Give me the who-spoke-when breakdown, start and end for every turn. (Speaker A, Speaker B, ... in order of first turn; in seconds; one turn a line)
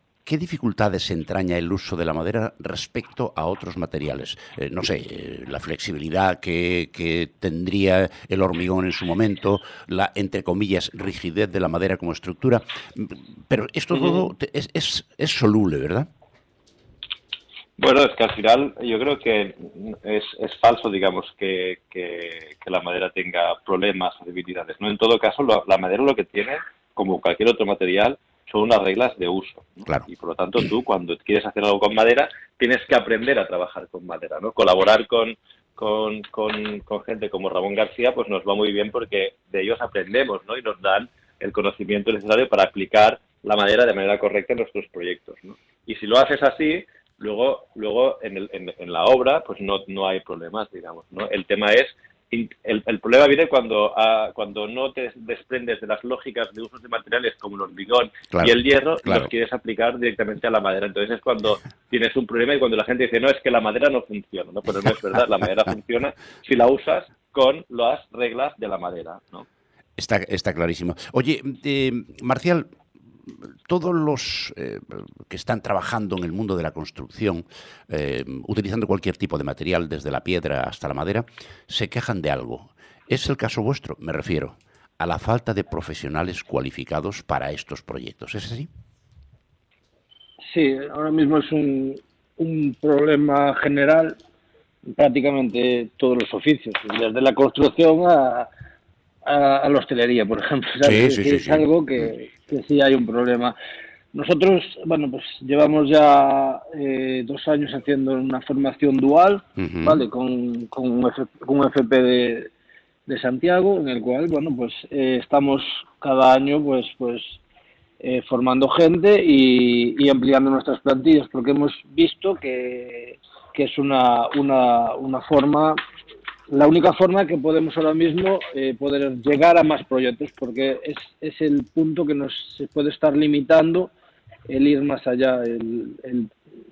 Speaker A: 0.2-16.1
Speaker B: 13.9-14.3
Speaker B: 17.8-69.5
Speaker A: 59.0-59.3
Speaker A: 70.0-72.7
Speaker A: 73.7-88.7
Speaker C: 90.4-94.2
Speaker C: 94.9-98.5
Speaker C: 99.2-103.5
Speaker A: 100.8-101.6
Speaker C: 104.1-112.5
Speaker A: 109.6-110.0
Speaker C: 113.1-117.4
Speaker C: 118.0-125.8
Speaker C: 126.5-133.9
Speaker C: 134.5-136.3